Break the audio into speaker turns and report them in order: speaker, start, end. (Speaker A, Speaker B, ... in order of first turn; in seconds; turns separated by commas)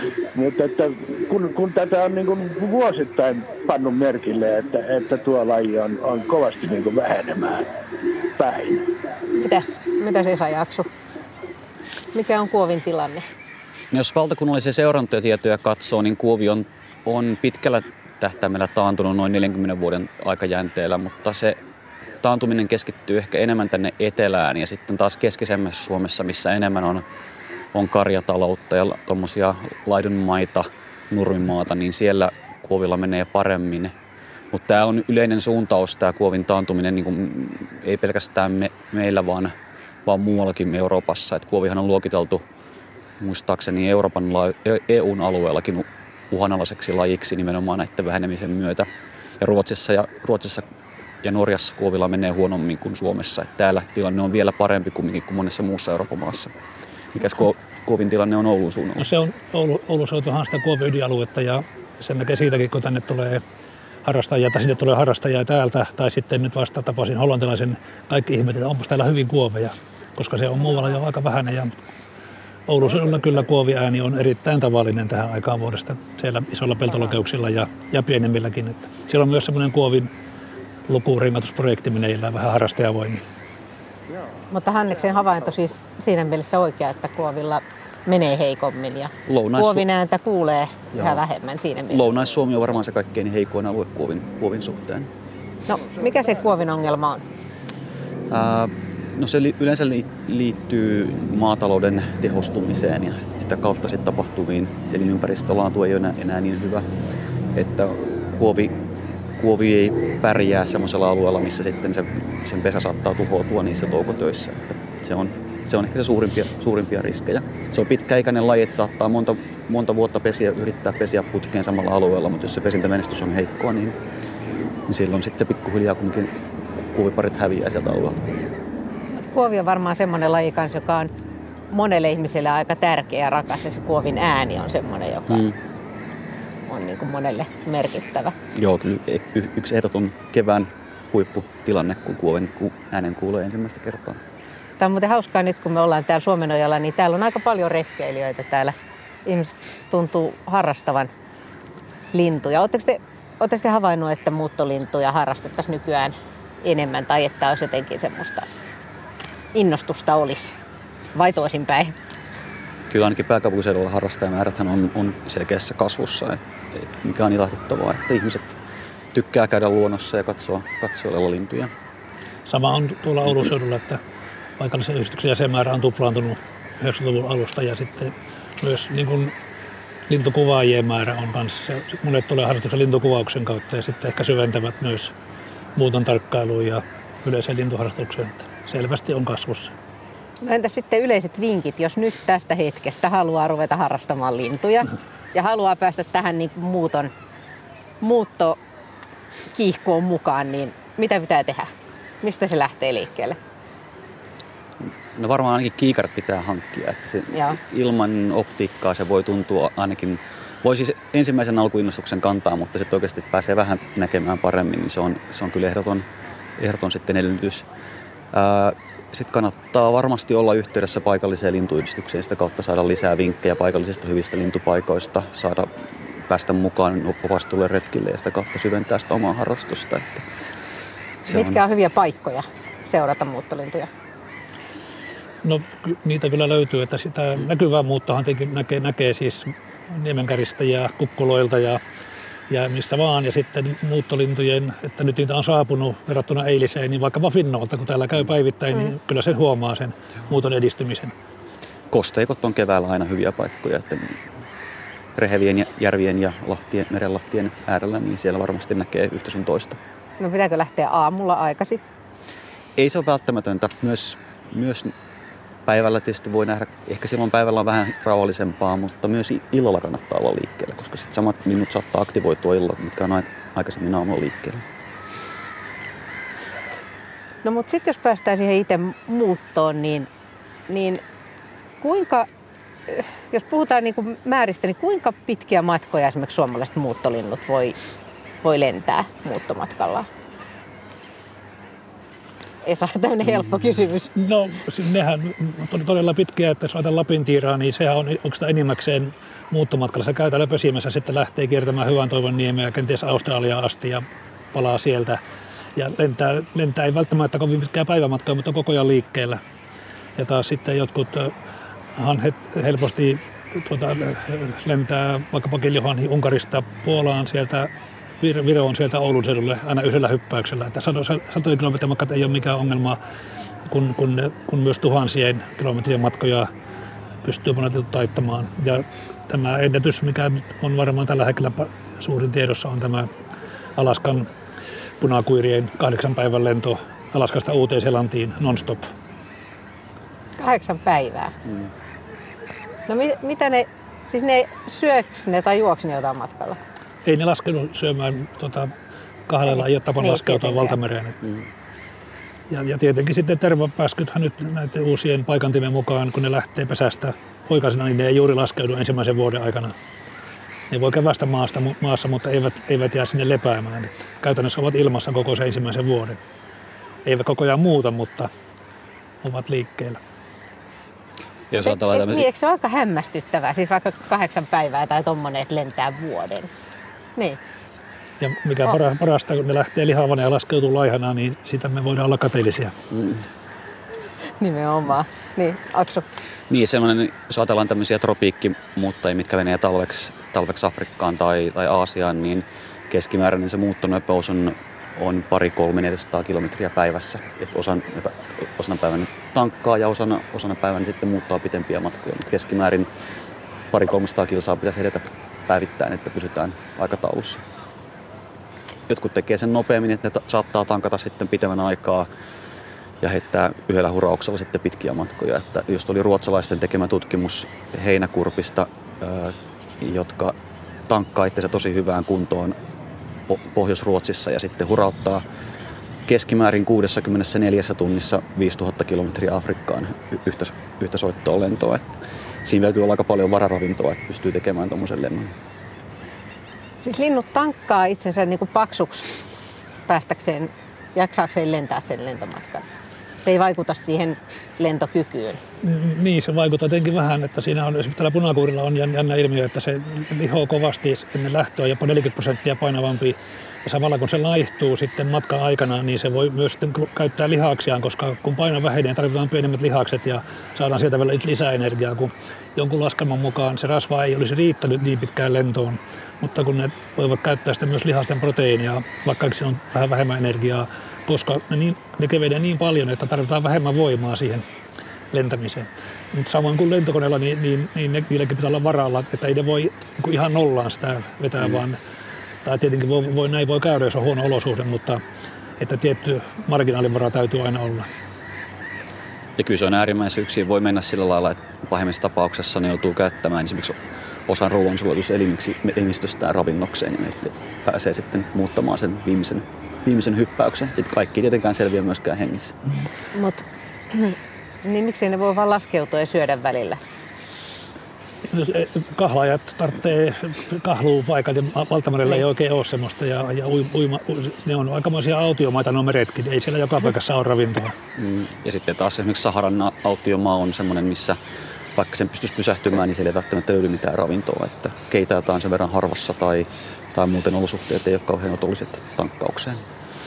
Speaker A: 0.3-7.7, Speaker A: 8.4-8.9, Speaker B: 9.3-10.9, Speaker B: 12.1-13.2, Speaker C: 13.9-21.6, Speaker C: 22.2-27.0, Speaker C: 27.7-33.9, Speaker C: 34.5-39.5, Speaker C: 40.0-42.5, Speaker C: 43.2-48.9, Speaker C: 49.4-50.6, Speaker C: 51.2-56.5, Speaker C: 57.1-59.1, Speaker D: 59.0-63.4, Speaker D: 64.0-71.8, Speaker D: 72.7-80.1, Speaker D: 80.9-83.2, Speaker B: 84.5-92.0, Speaker C: 89.3-89.9, Speaker C: 90.9-91.2, Speaker C: 91.9-95.1, Speaker B: 95.7-97.2, Speaker C: 98.3-106.9, Speaker C: 107.5-108.7, Speaker C: 109.4-124.0, Speaker C: 124.9-128.4, Speaker B: 129.1-131.1, Speaker B: 131.7-135.5, Speaker C: 135.3-135.6, Speaker B: 136.7-138.3, Speaker C: 138.5-144.2, Speaker B: 144.8-148.8, Speaker B: 149.2-151.1, Speaker B: 152.1-158.5, Speaker B: 159.5-160.6, Speaker B: 161.2-161.9, Speaker C: 162.9-168.6, Speaker C: 169.1-171.7, Speaker D: 172.5-174.0, Speaker D: 174.6-179.3, Speaker D: 180.1-185.1, Speaker D: 185.8-189.7, Speaker B: 190.4-197.1, Speaker B: 198.0-198.6, Speaker B: 199.5-201.7, Speaker B: 202.2-203.4, Speaker C: 205.1-216.1, Speaker C: 216.6-217.7, Speaker C: 218.3-225.7, Speaker C: 226.3-230.2, Speaker C: 231.2-231.6, Speaker B: 231.3-233.9, Speaker D: 235.4-241.8, Speaker D: 242.5-251.1, Speaker C: 251.9-254.2, Speaker C: 255.2-259.8, Speaker B: 260.2-261.8, Speaker C: 262.8-264.9, Speaker C: 265.7-274.6, Speaker B: 277.4-280.1, Speaker B: 280.7-281.0, Speaker B: 281.8-282.3, Speaker B: 282.9-287.8, Speaker B: 288.4-290.1, Speaker B: 292.6-294.1, Speaker D: 294.2-305.2, Speaker D: 305.8-309.4, Speaker D: 310.2-311.3, Speaker D: 312.0-317.7, Speaker D: 318.2-323.0, Speaker D: 323.7-326.5, Speaker D: 327.2-333.1, Speaker D: 333.8-334.3, Speaker D: 335.0-338.9, Speaker B: 340.4-341.4, Speaker B: 342.9-346.6, Speaker D: 347.1-348.7, Speaker D: 349.3-351.2, Speaker B: 349.5-350.8, Speaker D: 352.5-359.7, Speaker D: 360.7-366.2, Speaker D: 367.1-368.3, Speaker D: 369.2-370.0, Speaker C: 371.5-372.2, Speaker B: 371.6-376.5, Speaker D: 378.2-382.7, Speaker C: 382.9-383.2, Speaker B: 384.4-386.1, Speaker C: 386.5-402.9, Speaker C: 403.7-407.4, Speaker C: 408.9-412.1, Speaker C: 413.0-420.4, Speaker C: 420.9-422.6, Speaker C: 423.3-425.2, Speaker C: 426.1-431.9, Speaker C: 432.4-435.3, Speaker B: 436.8-439.1, Speaker B: 439.9-442.6, Speaker B: 443.2-445.4, Speaker D: 445.6-474.4, Speaker D: 475.1-481.8, Speaker D: 482.4-485.0, Speaker D: 485.6-487.9, Speaker C: 489.4-502.5, Speaker B: 503.1-506.8, Speaker D: 508.3-517.7, Speaker C: 518.0-521.2, Speaker C: 521.8-529.6